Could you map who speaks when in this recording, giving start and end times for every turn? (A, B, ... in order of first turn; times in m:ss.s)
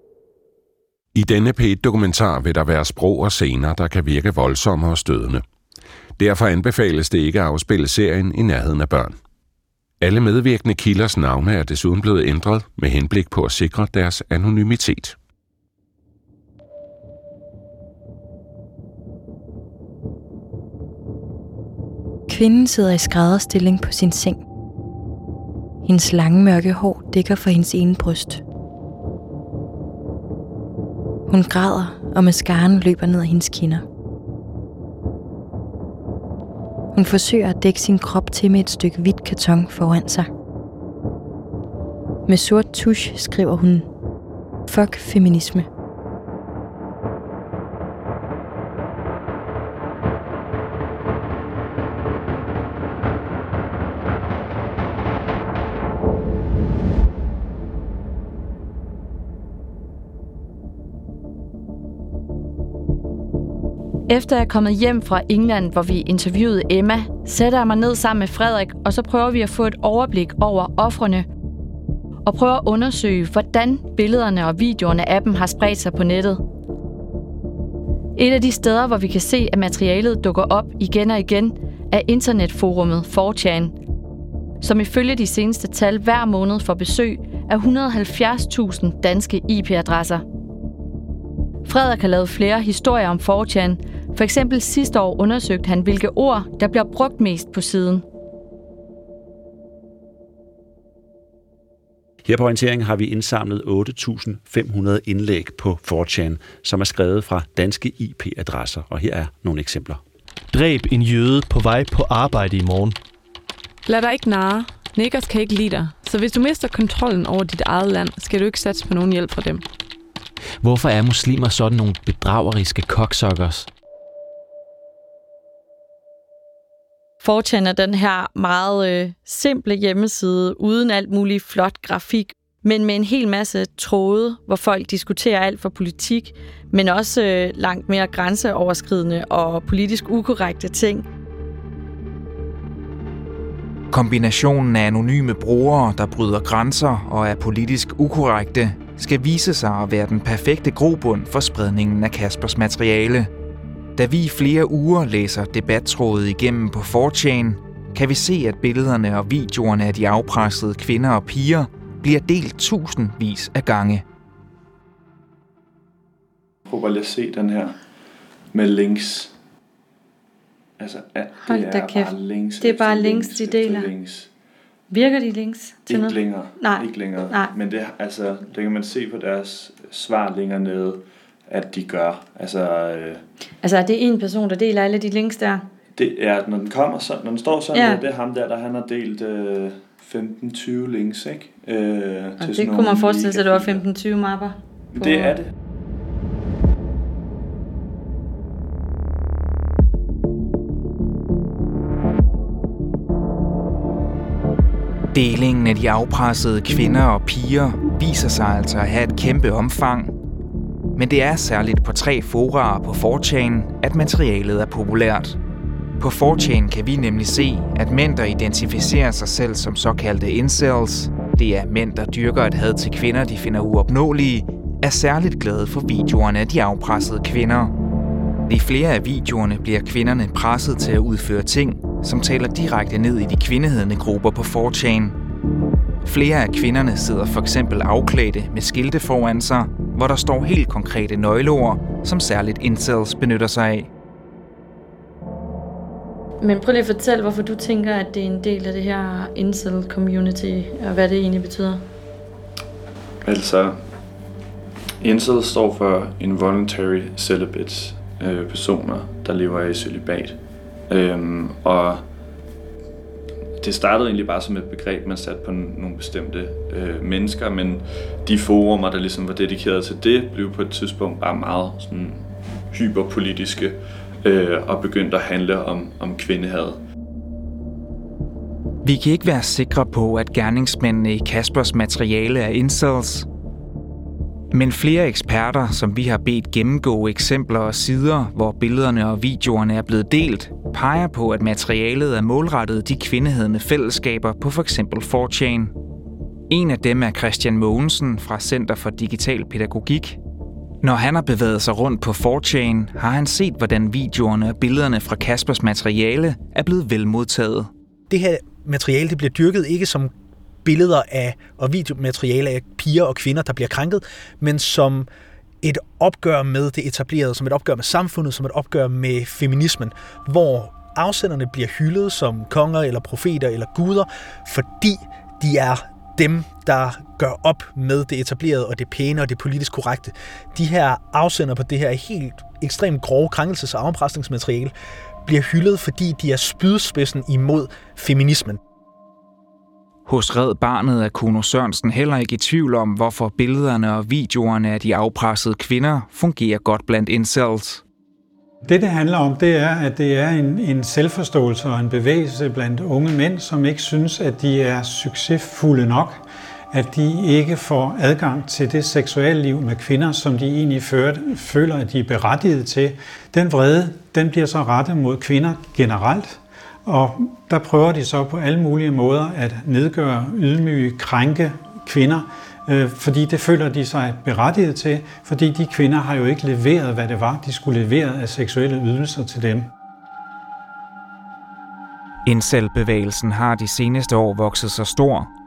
0:01.1-0:05.4 A
0:06.2-0:09.2 A
0:10.0-0:15.2 A
0:22.3-0:24.4 B
0:25.8-0:28.4 B
0:31.3-0:33.8 B
0:36.9-0:40.3 B
0:42.3-0:43.9 B
0:44.7-0:45.7 B
1:04.1-1:11.3 C
1:12.2-1:16.4 C
1:18.2-1:23.8 C
1:24.6-1:30.2 C
1:31.6-1:38.0 C
1:42.2-1:50.0 D
1:50.5-1:53.0 E
1:53.9-1:59.6 F
2:00.6-2:03.7 G
2:07.2-2:21.1 C
2:23.9-2:33.3 H
2:34.0-2:44.0 H
2:46.7-2:47.8 I
2:48.5-2:49.3 I
2:50.8-2:54.3 I
2:51.4-2:53.9 C
2:54.9-2:57.5 C
2:55.9-3:03.2 I
3:03.6-3:05.6 C
3:06.0-3:13.8 I
3:07.7-3:08.0 C
3:12.4-3:15.4 C
3:14.9-3:15.5 I
3:25.1-3:30.1 H
3:31.0-3:35.4 H
3:36.0-3:47.7 H
3:48.5-3:55.2 H
3:56.0-4:03.9 H
4:06.4-4:11.8 C
4:13.2-4:13.8 I
4:15.0-4:20.4 I
4:20.9-4:22.0 I
4:23.6-4:36.8 I
4:38.8-4:43.3 H
4:44.5-4:55.7 H
4:56.5-5:00.2 H
5:00.8-5:07.7 H
5:08.1-5:10.1 J
5:10.6-5:15.1 J
5:15.6-5:34.7 J
5:35.2-5:38.6 J
5:40.1-5:47.8 H
5:48.6-6:19.7 K
6:22.2-6:25.3 H